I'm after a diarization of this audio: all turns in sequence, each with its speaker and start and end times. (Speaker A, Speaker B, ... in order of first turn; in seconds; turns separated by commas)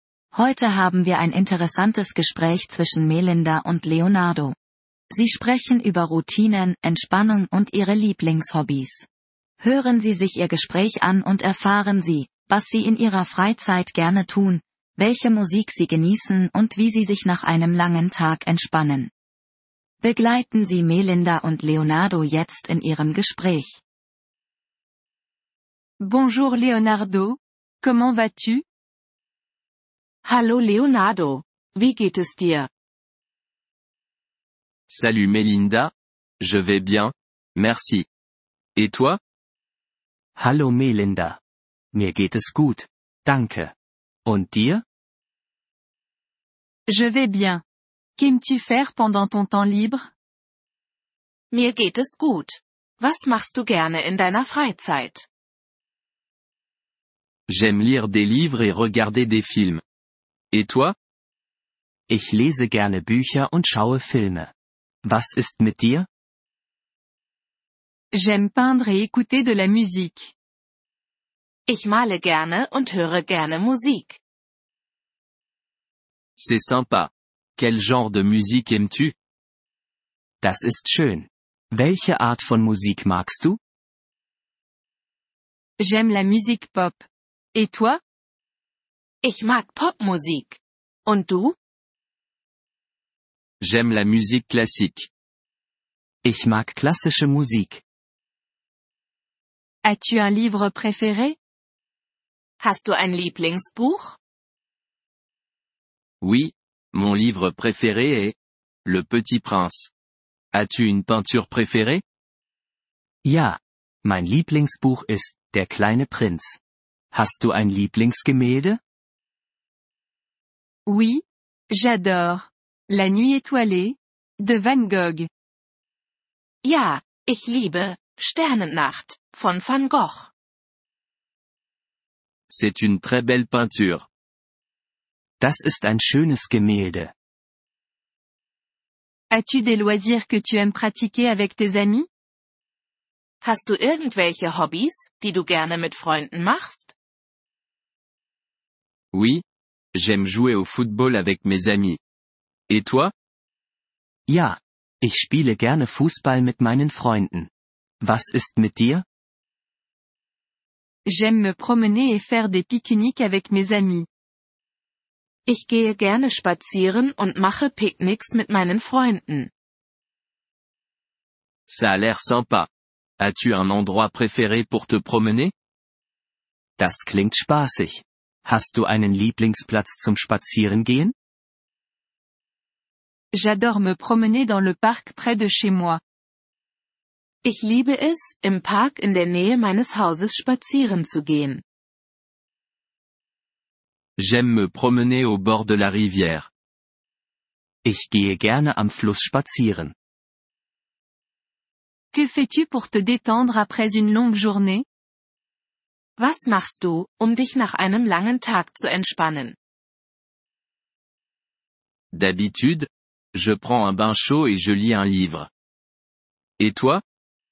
Speaker A: 0.3-4.5, Speaker A: 5.1-9.1, Speaker A: 9.6-19.1, Speaker A: 20.0-23.8, Speaker B: 26.0-28.6, Speaker C: 30.2-32.7, Speaker D: 34.9-38.1, Speaker D: 38.8-39.2, Speaker E: 40.4-41.4, Speaker E: 41.9-43.7, Speaker E: 44.2-44.8, Speaker B: 46.9-47.6, Speaker B: 48.2-50.0, Speaker C: 51.5-55.3, Speaker D: 57.5-59.8, Speaker D: 60.5-60.9, Speaker E: 62.1-64.5, Speaker E: 65.0-66.1, Speaker B: 68.1-70.3, Speaker C: 71.7-74.2, Speaker D: 76.4-79.1, Speaker E: 80.4-83.6, Speaker B: 85.8-88.0, Speaker C: 89.2-91.5, Speaker D: 93.6-95.1, Speaker E: 96.2-97.8, Speaker B: 99.8-101.3, Speaker C: 102.6-104.2, Speaker D: 106.2-109.9, Speaker D: 110.5-112.0, Speaker E: 113.2-116.6, Speaker E: 117.1-118.8, Speaker B: 120.8-125.3, Speaker C: 126.6-130.3, Speaker D: 132.5-134.1, Speaker E: 135.4-137.1, Speaker B: 139.3-142.1, Speaker C: 143.4-146.9, Speaker D: 149.1-152.0, Speaker D: 152.7-153.1, Speaker E: 154.3-157.5, Speaker E: 158.0-159.0, Speaker B: 161.1-164.1, Speaker C: 165.5-169.5, Speaker D: 171.7-172.7, Speaker D: 173.2-175.5, Speaker E: 176.8-181.1, Speaker B: 183.3-186.0, Speaker C: 187.4-191.6, Speaker D: 194.2-196.5, Speaker E: 197.8-199.9, Speaker B: 202.1-204.8, Speaker C: 206.2-209.6, Speaker D: 212.1-215.5, Speaker D: 216.6-217.0